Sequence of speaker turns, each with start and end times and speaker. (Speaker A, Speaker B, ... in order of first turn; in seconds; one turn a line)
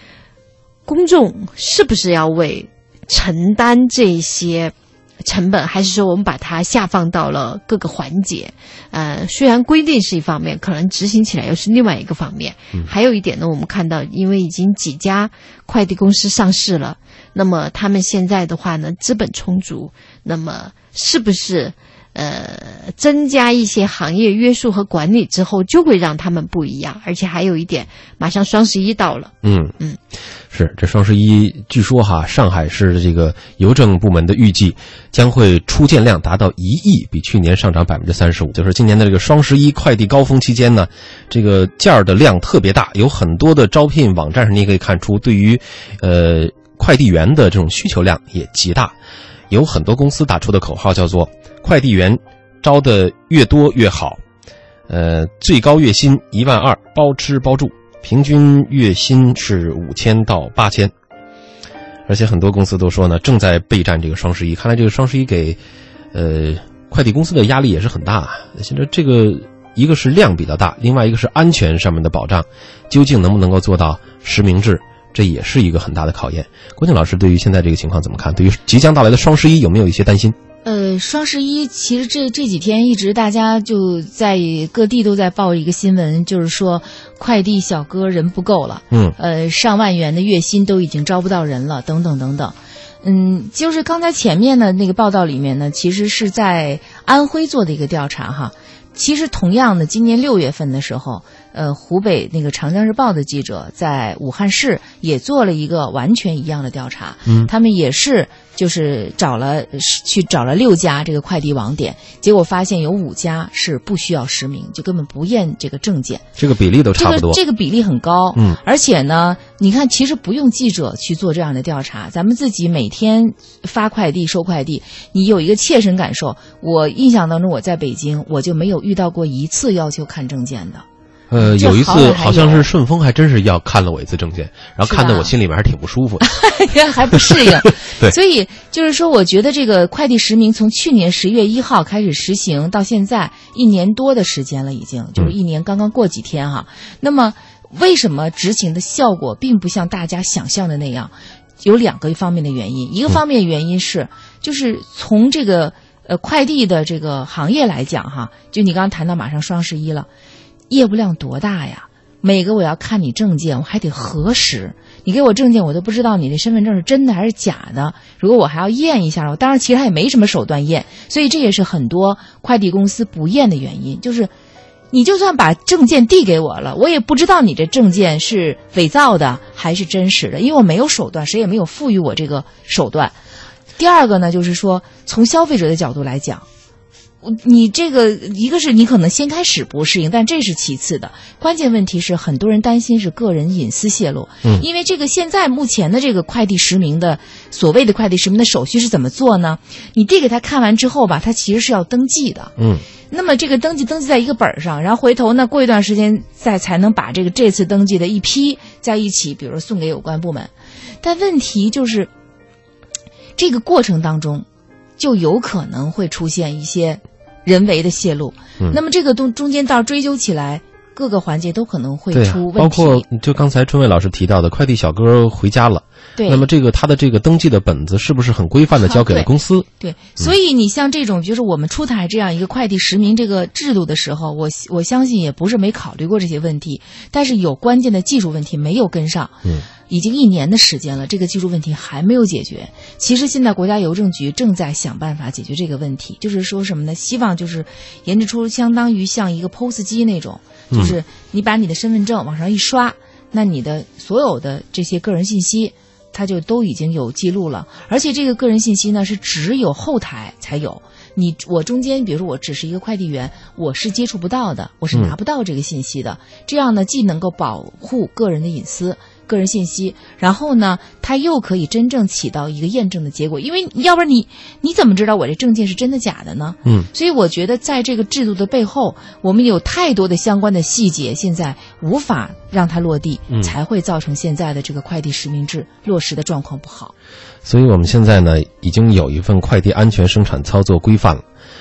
Speaker A: 0.9-30.0
Speaker B: 29.4-29.8
Speaker B: 30.5-48.9
Speaker B: 49.5-54.2
Speaker B: 54.9-60.9
Speaker B: 62.1-65.6
Speaker B: 66.1-80.3
Speaker C: 80.6-116.3
Speaker B: 88.9-89.2
Speaker B: 107.2-107.5
Speaker B: 116.4-117.4
Speaker C: 116.9-130.8
Speaker B: 131.3-136.4
Speaker C: 131.4-132.7
Speaker C: 134.8-135.3
Speaker C: 136.3-160.1
Speaker B: 137.1-137.4
Speaker C: 160.7-174.3
Speaker C: 174.9-183.2
Speaker C: 183.8-186.4
Speaker C: 187.2-202.5
Speaker B: 202.6-202.8
Speaker C: 203.1-210.5
Speaker C: 211.0-212.1
Speaker C: 213.4-214.4
Speaker C: 215.0-223.1
Speaker B: 222.1-229.7
Speaker C: 226.2-226.5
Speaker C: 228.7-286.9
Speaker B: 250.7-251.0
Speaker B: 276.6-276.9
Speaker B: 283.3-283.6
Speaker B: 287.4-291.2